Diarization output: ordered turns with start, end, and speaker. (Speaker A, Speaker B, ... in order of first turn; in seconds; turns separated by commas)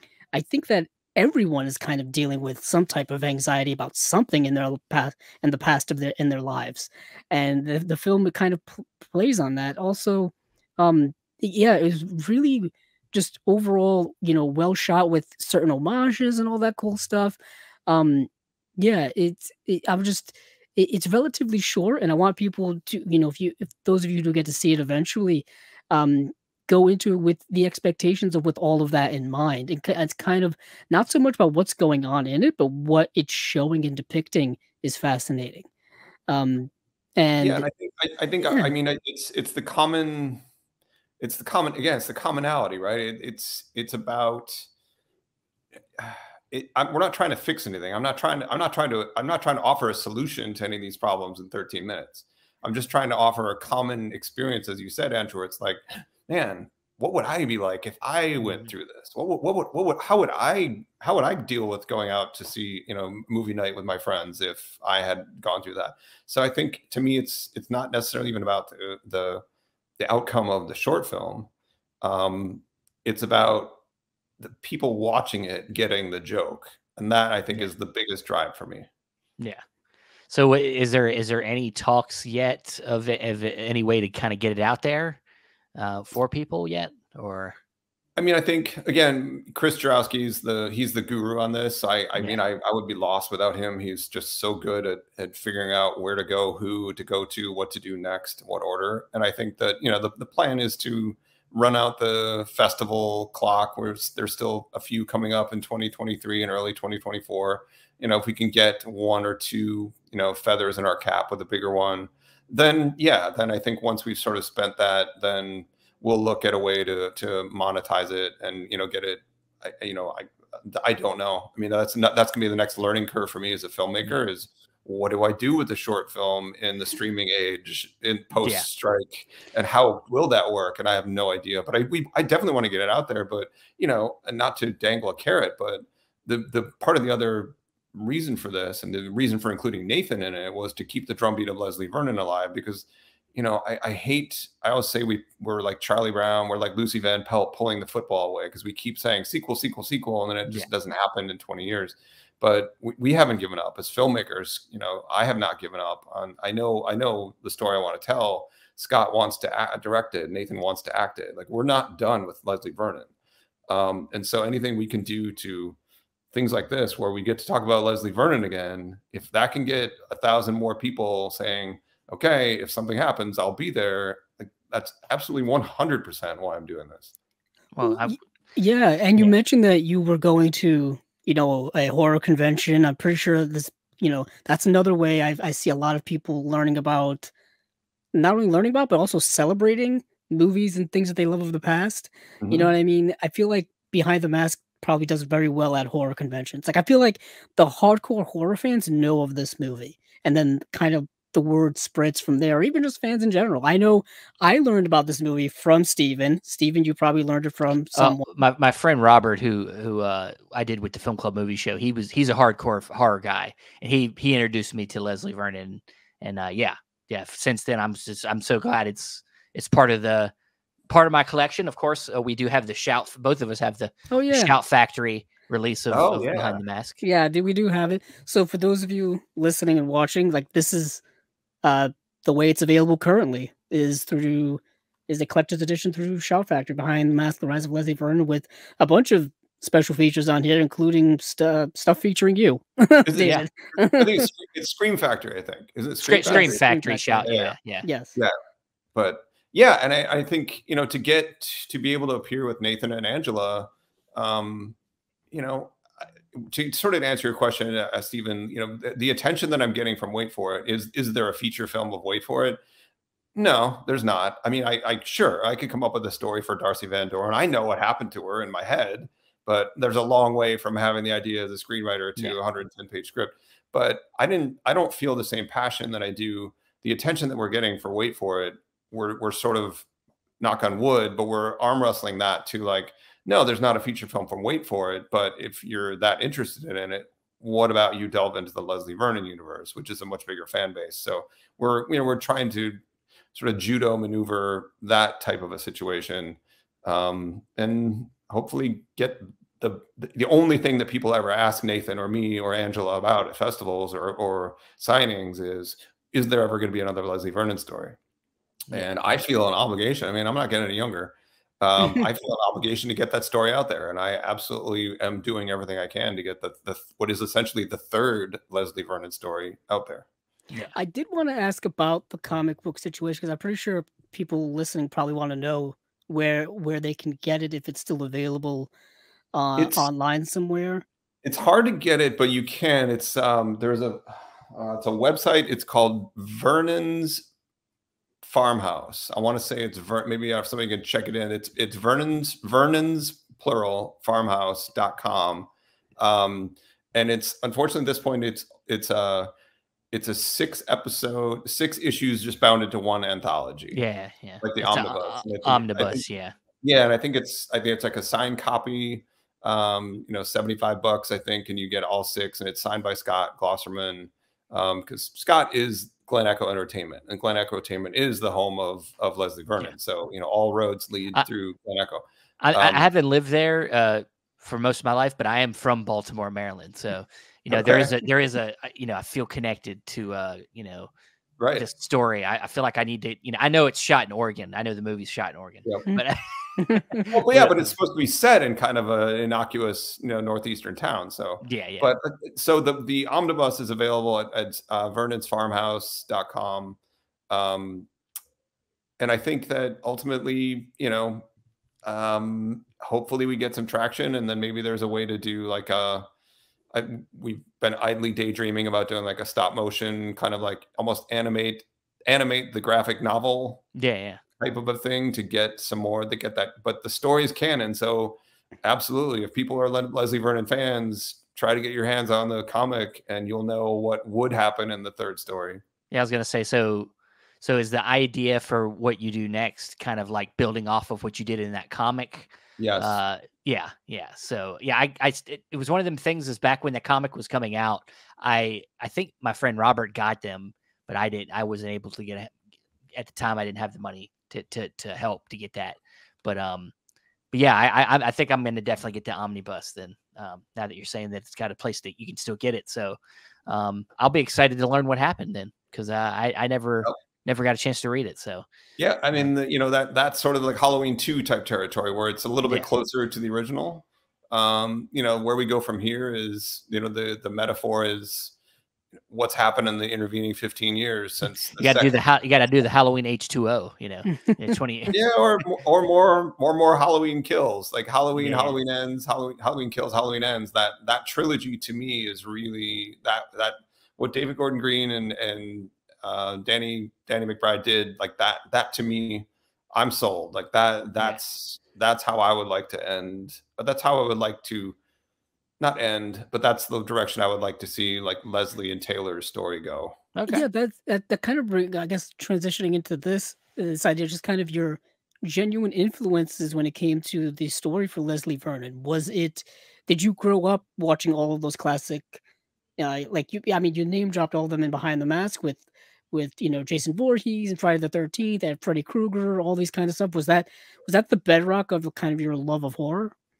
Speaker A: 0.3-35.7, Speaker A: 36.3-37.7, Speaker B: 37.4-40.4, Speaker B: 41.2-44.7, Speaker B: 46.0-69.5, Speaker B: 70.0-71.5, Speaker B: 72.0-73.8, Speaker B: 74.4-78.9, Speaker C: 80.3-85.2, Speaker C: 85.8-87.6, Speaker B: 88.2-163.1, Speaker B: 163.7-165.8, Speaker B: 166.3-177.1, Speaker C: 177.7-178.2, Speaker A: 177.8-187.3, Speaker A: 188.1-208.3, Speaker B: 192.4-192.7, Speaker C: 207.9-220.3, Speaker C: 220.9-227.0, Speaker A: 224.1-224.5, Speaker B: 225.9-226.6, Speaker A: 227.0-231.0, Speaker A: 231.6-244.3, Speaker B: 243.1-246.6, Speaker C: 246.0-247.9, Speaker A: 246.2-247.3, Speaker B: 247.2-247.6, Speaker A: 247.8-248.1, Speaker B: 248.9-254.8, Speaker B: 255.3-255.8, Speaker B: 256.3-262.6, Speaker B: 263.4-279.9, Speaker B: 280.4-292.8, Speaker B: 293.3-308.0, Speaker B: 308.7-320.1, Speaker A: 320.7-328.7, Speaker A: 329.3-330.8, Speaker B: 329.6-329.9, Speaker B: 331.2-337.3, Speaker B: 338.2-349.3, Speaker B: 349.9-353.8, Speaker C: 353.7-356.3, Speaker B: 354.4-356.0, Speaker B: 356.6-372.9, Speaker C: 372.4-380.9, Speaker B: 377.5-378.0, Speaker B: 381.4-381.6, Speaker C: 381.6-387.7, Speaker A: 386.6-387.1, Speaker B: 387.1-396.8, Speaker C: 391.4-391.9, Speaker B: 397.3-397.9, Speaker B: 399.0-401.3, Speaker B: 401.8-406.1, Speaker B: 406.7-413.7, Speaker C: 413.7-414.2, Speaker B: 414.4-425.6, Speaker C: 425.9-442.3, Speaker B: 432.6-433.0, Speaker C: 442.9-446.7, Speaker C: 447.3-458.4, Speaker B: 458.8-468.3, Speaker C: 462.4-462.7, Speaker B: 469.1-471.9, Speaker C: 471.6-474.9, Speaker A: 474.1-474.4, Speaker B: 474.9-494.8, Speaker C: 478.2-478.6, Speaker B: 495.6-500.0, Speaker C: 500.1-500.4, Speaker A: 500.3-512.2, Speaker A: 512.8-523.1